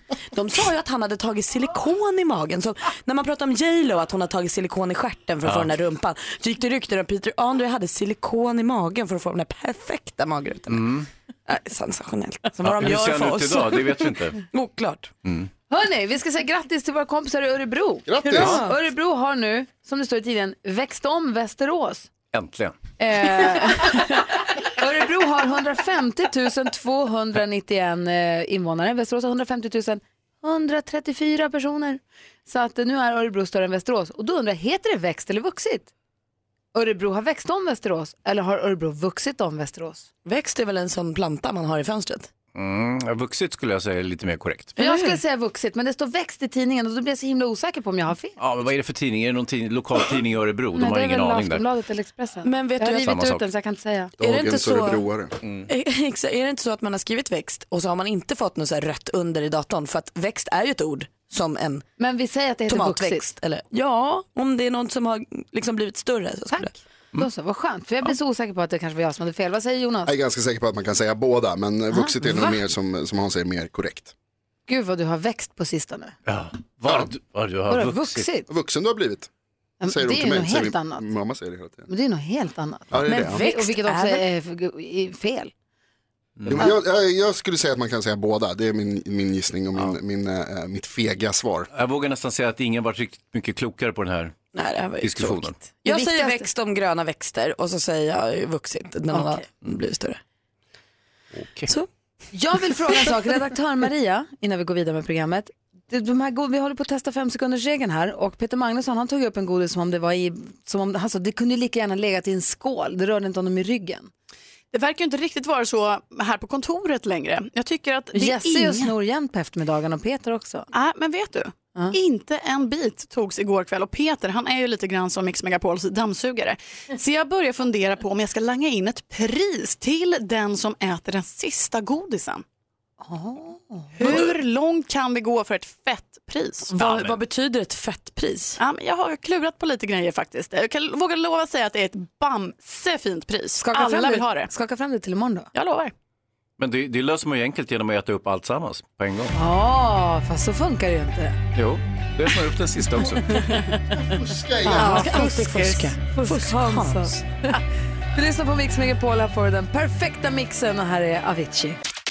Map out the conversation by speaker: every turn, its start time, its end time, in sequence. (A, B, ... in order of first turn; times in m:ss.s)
0:00.3-0:15.1 A
0:05.4-0:05.7 B
0:10.7-0:11.1 B
0:12.6-0:14.4 B
0:15.7-0:22.1 C
0:18.0-0:18.6 D
0:18.4-0:18.7 A
0:22.3-0:22.8 B
0:23.0-0:35.9 C
0:36.7-0:40.1 C
0:40.2-0:42.3 A
0:42.5-0:44.7 B
0:44.8-0:45.2 A
0:44.8-0:48.4 C
0:48.4-0:51.6 B
0:50.7-0:54.2 C
0:52.4-0:53.2 A
0:53.0-0:53.4 B
0:54.2-0:55.1 A
0:54.2-0:55.3 D
0:55.7-1:01.9 A
1:02.0-1:03.3 C
1:02.7-1:06.7 A
1:06.5-1:10.1 C
1:10.0-1:14.1 D
1:11.9-1:12.6 C
1:14.7-1:16.1 C
1:16.3-1:18.3 B
1:17.7-1:18.5 C
1:18.5-1:19.3 D
1:19.8-1:21.0 C
1:19.9-1:21.9 D
1:21.9-1:25.5 C
1:22.9-1:23.4 D
1:23.0-1:24.2 A
1:26.4-1:26.7 B
1:26.5-1:31.7 D
1:31.7-1:34.4 B
1:34.5-1:40.2 A
1:35.0-1:35.6 B
1:35.8-1:36.5 C
1:39.1-1:39.4 C
1:41.3-1:41.7 B
1:42.3-1:54.1 C
1:54.7-1:58.9 E
1:58.1-2:00.7 C
2:00.7-2:12.4 E
2:13.0-2:14.2 C
2:14.0-2:16.7 E
2:14.0-2:14.3 A
2:16.7-2:18.6 A
2:16.8-2:17.1 B
2:18.6-2:24.5 E
2:23.6-2:25.5 C
2:25.5-2:25.9 E
2:26.6-2:29.3 B
2:29.3-2:31.4 C
2:31.6-2:33.4 B
2:33.9-2:35.1 D
2:34.6-2:37.2 A
2:34.7-2:37.6 C
2:38.1-2:41.8 C